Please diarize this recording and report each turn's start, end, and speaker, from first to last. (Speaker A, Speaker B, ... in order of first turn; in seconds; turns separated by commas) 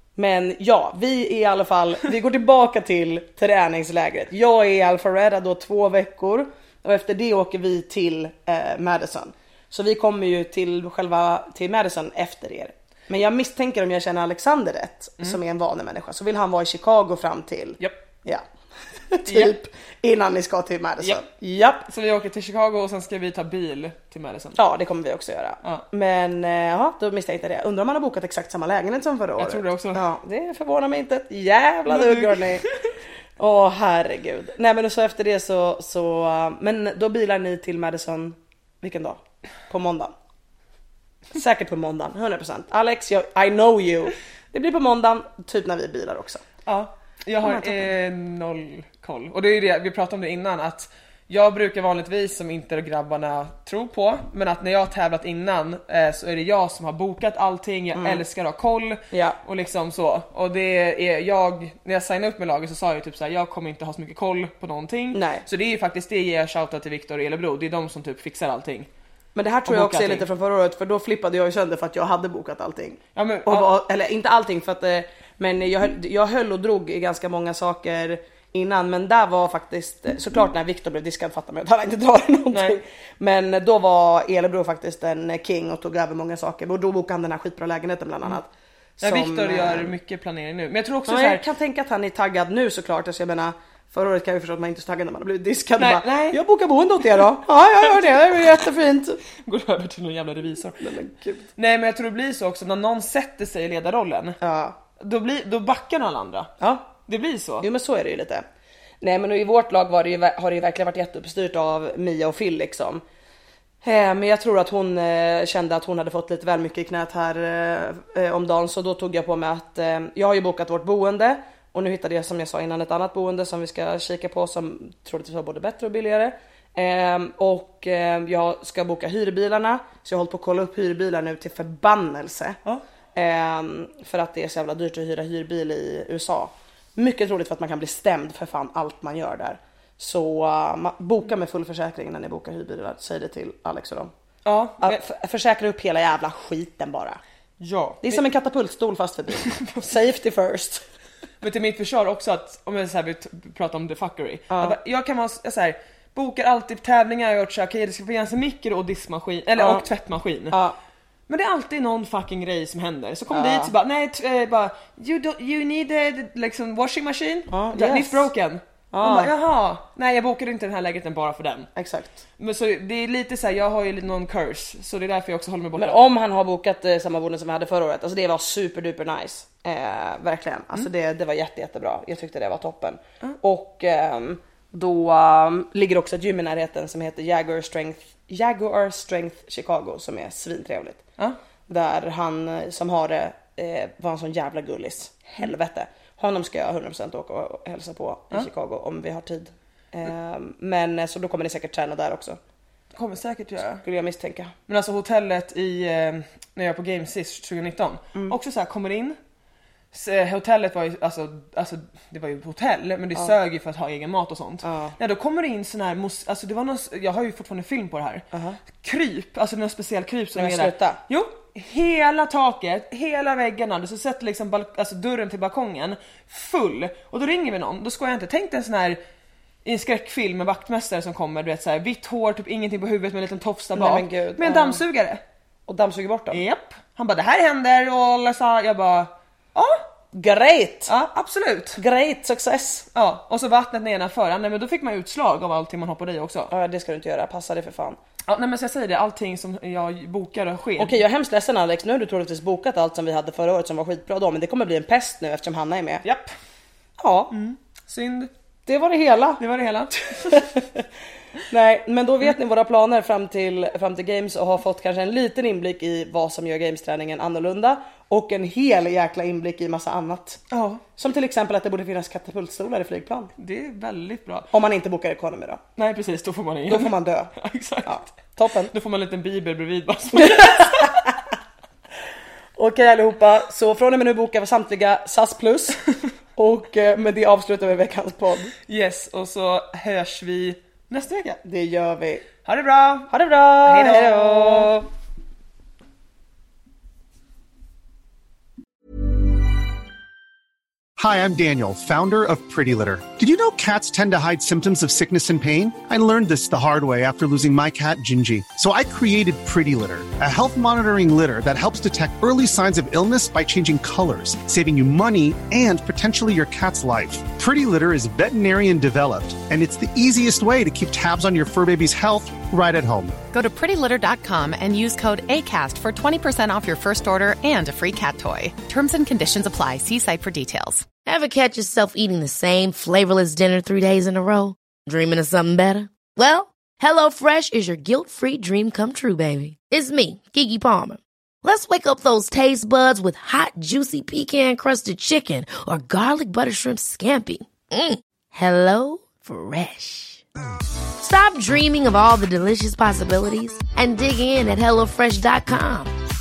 Speaker A: 0.2-18.4, Speaker A: 19.1-21.9, Speaker B: 19.3-19.5, Speaker B: 21.9-24.6, Speaker A: 24.6-32.7, Speaker B: 29.4-30.0, Speaker B: 31.9-32.9, Speaker A: 33.4-40.1, Speaker A: 41.3-46.4, Speaker B: 46.7-68.9, Speaker A: 47.4-47.8, Speaker A: 58.0-58.2, Speaker A: 59.1-59.4, Speaker A: 65.1-65.4, Speaker A: 69.4-88.5, Speaker B: 69.7-70.3, Speaker B: 73.2-73.7, Speaker B: 82.5-82.8, Speaker B: 89.0-91.4, Speaker A: 89.0-89.9, Speaker A: 91.1-99.2, Speaker B: 95.8-96.4, Speaker B: 97.9-98.2, Speaker B: 99.4-100.9, Speaker A: 100.8-101.5, Speaker B: 101.6-104.4, Speaker A: 104.4-104.8, Speaker B: 105.0-106.5, Speaker A: 106.6-106.9, Speaker B: 107.0-107.7, Speaker A: 107.6-108.5, Speaker A: 109.0-113.0, Speaker A: 113.8-132.6, Speaker A: 133.2-144.1, Speaker B: 144.4-145.0, Speaker A: 144.8-147.2, Speaker B: 147.6-148.2, Speaker A: 148.0-150.8, Speaker B: 149.4-149.9, Speaker B: 151.4-160.6, Speaker A: 154.5-154.8, Speaker A: 159.6-159.9, Speaker A: 160.5-160.8, Speaker B: 161.3-171.7, Speaker A: 163.3-163.7, Speaker A: 167.5-168.3, Speaker A: 168.9-169.3, Speaker A: 171.8-172.2, Speaker B: 172.4-176.0, Speaker A: 175.8-191.0, Speaker A: 191.7-202.4, Speaker B: 202.9-203.8, Speaker A: 203.8-204.5, Speaker B: 204.7-209.2, Speaker B: 209.9-229.0, Speaker A: 214.6-214.9, Speaker A: 218.3-218.6, Speaker A: 220.4-221.0, Speaker B: 229.7-235.2, Speaker A: 233.8-234.8, Speaker A: 235.7-236.4, Speaker B: 236.3-239.8, Speaker A: 240.1-240.9, Speaker B: 240.9-241.8, Speaker A: 241.8-242.9, Speaker B: 242.9-246.5, Speaker A: 246.5-248.0, Speaker B: 248.3-251.0, Speaker A: 250.8-256.0, Speaker B: 256.0-256.3, Speaker A: 257.0-257.3, Speaker B: 257.3-258.3, Speaker A: 258.7-259.4, Speaker B: 259.4-260.5, Speaker A: 260.0-260.9, Speaker A: 261.5-270.4, Speaker B: 270.5-270.8, Speaker A: 271.0-273.3, Speaker B: 273.4-274.5, Speaker A: 274.5-275.6, Speaker B: 275.8-278.1, Speaker A: 276.7-277.3, Speaker A: 277.9-278.7, Speaker B: 278.7-280.9, Speaker A: 280.1-281.1, Speaker A: 282.6-285.8, Speaker A: 286.4-288.5, Speaker B: 288.7-291.4, Speaker A: 291.4-292.3, Speaker B: 292.4-293.1, Speaker A: 293.1-294.9, Speaker B: 293.7-294.7, Speaker C: 301.0-323.2, Speaker D: 323.3-330.9, Speaker E: 331.1-350.2, Speaker E: 351.0-355.9